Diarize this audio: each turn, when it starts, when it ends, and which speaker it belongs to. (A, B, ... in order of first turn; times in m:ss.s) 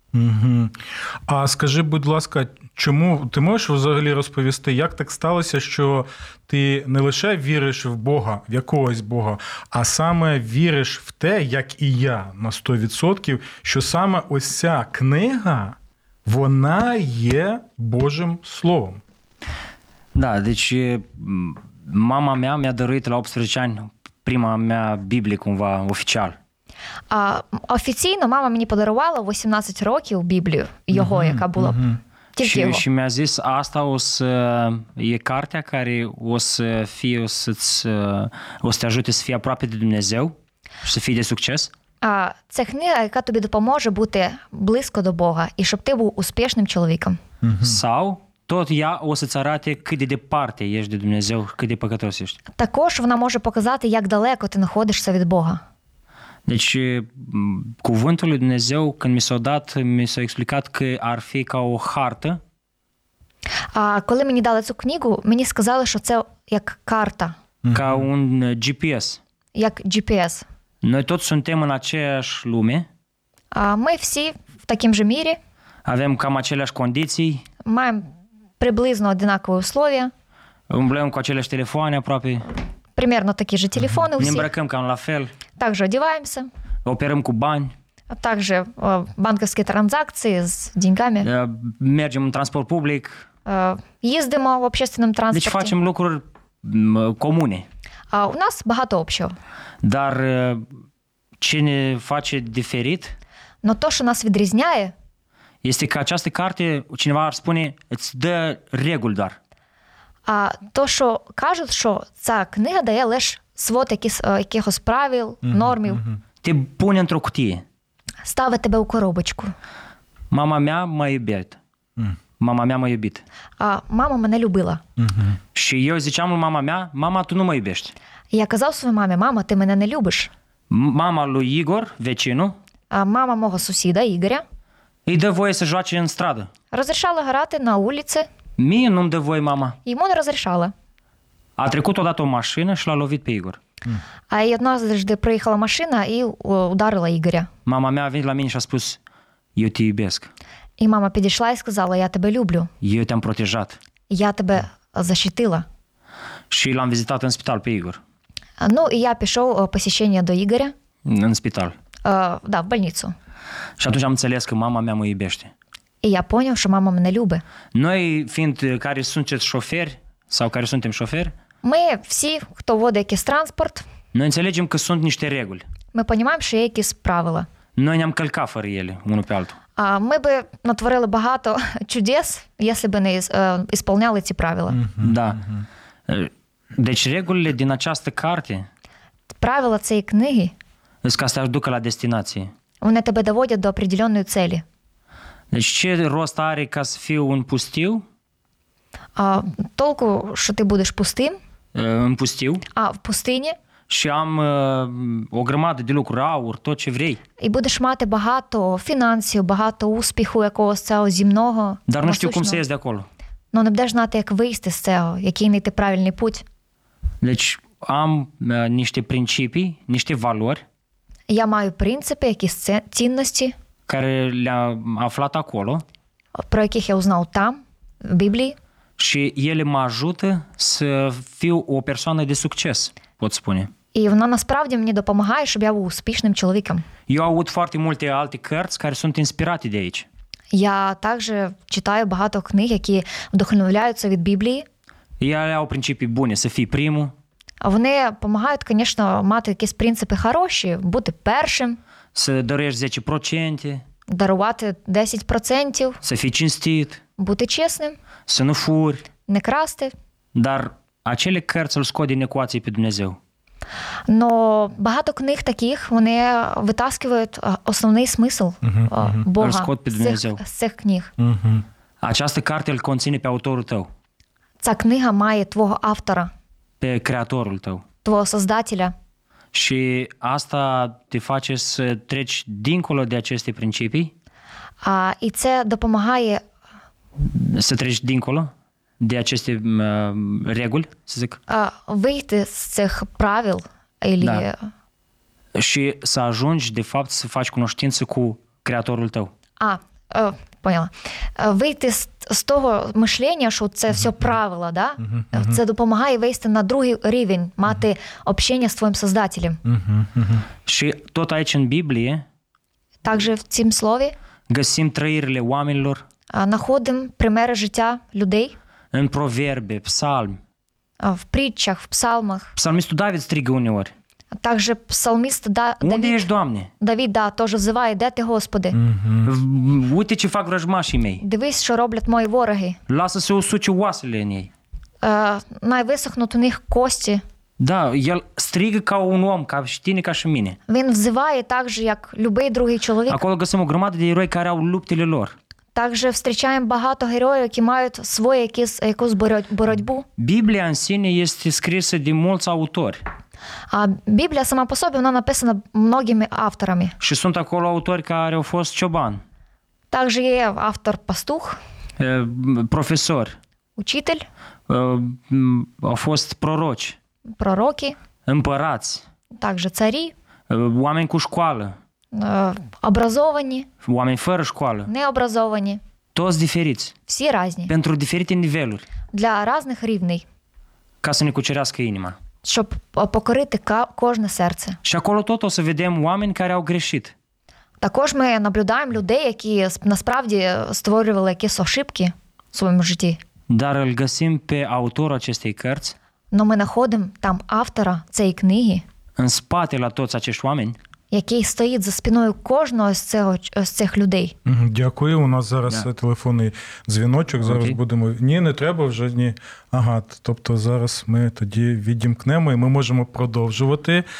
0:00.1-0:19.0 A
0:20.1-0:26.4 B
0:27.1-0:31.8 C
0:30.9-0:32.0 A
0:32.4-0:32.8 C
0:32.4-0:41.7 B
0:42.0-0:47.2 C
0:47.4-0:47.8 A
0:47.6-0:52.4 B
0:52.6-0:55.6 C
0:56.5-1:02.4 B
1:03.7-1:07.4 C
1:07.6-1:08.1 A
1:07.7-1:09.2 B
1:09.6-1:10.4 C
1:10.8-1:12.9 B
1:13.5-1:15.4 C
1:15.8-1:17.4 B
1:17.6-1:20.1 C
1:20.7-1:22.4 B
1:23.0-1:24.5 C
1:24.2-1:25.3 B
1:25.6-1:26.5 C
1:26.8-1:27.7 B
1:28.1-1:31.3 C
1:31.2-1:33.2 B
1:33.5-1:35.7 C
1:35.3-1:37.6 B
1:38.1-1:39.4 C
1:39.8-1:40.6 B
1:41.4-1:43.1 B
1:43.6-1:44.9 C
1:45.6-1:49.4 B
1:50.3-1:56.0 C
1:55.4-1:56.2 A
1:56.4-1:57.6 B
1:58.2-1:59.5 C
2:00.3-2:01.6 B
2:02.4-2:03.2 B
2:03.6-2:04.8 C
2:05.0-2:05.4 A
2:05.6-2:07.9 B
2:08.3-2:10.3 C
2:10.7-2:12.6 B
2:12.9-2:14.4 C
2:15.1-2:16.5 B
2:16.7-2:18.3 C
2:18.6-2:19.8 B
2:19.8-2:20.7 C
2:21.6-2:23.6 B
2:24.3-2:27.5 C
2:27.6-2:29.0 B
2:29.6-2:30.3 B
2:30.8-2:32.7 C
2:32.8-2:33.8 B
2:34.1-2:35.6 C
2:36.5-2:38.0 B
2:38.6-2:40.7 C
2:41.0-2:41.8 B
2:42.0-2:43.1 C
2:43.8-2:45.5 B
2:46.0-2:47.4 C
2:47.7-2:51.3 B
2:51.6-2:53.8 C
2:54.1-2:55.6 B
2:55.9-2:57.5 C
2:57.8-2:59.6 B
2:59.8-3:04.8 C
3:04.8-3:05.6 A
3:05.0-3:05.4 B
3:06.1-3:08.7 B
3:09.4-3:10.5 C
3:11.0-3:12.5 B
3:12.8-3:14.6 C
3:15.5-3:18.0 B
3:19.2-3:21.4 C
3:21.7-3:22.6 B
3:22.8-3:23.6 C
3:23.9-3:27.2 B
3:27.4-3:32.6 C
3:31.9-3:33.1 B
3:33.5-3:36.4 C
3:37.2-3:40.6 B
3:41.3-3:43.6 C
3:43.9-3:45.8 B
3:46.4-3:48.6 C
3:49.0-3:53.7 B
3:53.9-3:56.8 C
3:57.1-4:00.1 B
4:00.5-4:04.6 C
4:05.2-4:07.1 B
4:07.6-4:11.8 C
4:12.1-4:13.8 B
4:14.1-4:16.0 C
4:16.0-4:17.0 B
4:17.2-4:18.0 C
4:18.3-4:19.0 B
4:19.3-4:19.9 C
4:20.4-4:23.2 B
4:24.1-4:31.1 C
4:28.6-4:29.2 A
4:29.4-4:30.4 B
4:31.2-4:31.6 A
4:32.0-4:33.9 B
4:34.6-4:36.3 C
4:36.8-4:37.8 B
4:38.0-4:38.9 C
4:39.5-4:44.1 B
4:44.8-4:46.4 C
4:47.2-4:51.4 B
4:51.5-4:54.7 C
4:54.2-4:54.5 B
4:55.6-4:59.3 B
4:59.6-5:09.6 C
5:05.1-5:05.6 A
5:09.6-5:10.5 A
5:10.6-5:12.2 B
5:13.0-5:14.1 C
5:14.5-5:16.0 B
5:16.3-5:18.6 C
5:18.9-5:20.4 B
5:21.0-5:22.5 C
5:22.6-5:23.9 B
5:24.4-5:26.2 C
5:25.8-5:26.7 B
5:26.8-5:28.8 C
5:28.7-5:29.3 A
5:29.2-5:31.2 B
5:31.2-5:32.8 C
5:32.9-5:34.5 B
5:35.0-5:37.2 C
5:37.6-5:40.6 B
5:40.7-5:43.2 C
5:43.1-5:45.4 B
5:45.8-5:50.0 C
5:50.2-5:53.0 B
5:53.7-5:57.0 C
5:57.0-5:59.2 B
5:59.9-6:01.6 C
6:02.0-6:03.4 B
6:03.8-6:04.2 C
6:04.7-6:07.0 B
6:07.4-6:08.0 C
6:08.2-6:09.0 B
6:09.4-6:10.1 C
6:10.5-6:11.8 B
6:12.1-6:13.7 C
6:13.8-6:14.9 B
6:14.9-6:15.8 C
6:16.1-6:16.9 B
6:17.1-6:17.7 C
6:17.7-6:18.8 B
6:19.1-6:20.2 C
6:21.0-6:22.2 B
6:22.4-6:24.8 C
6:24.8-6:27.1 B
6:27.8-6:33.2 C
6:33.5-6:36.0 B
6:36.3-6:38.8 C
6:39.2-6:40.8 B
6:41.1-6:44.4 C
6:44.4-6:54.0 A
6:47.4-6:47.8 B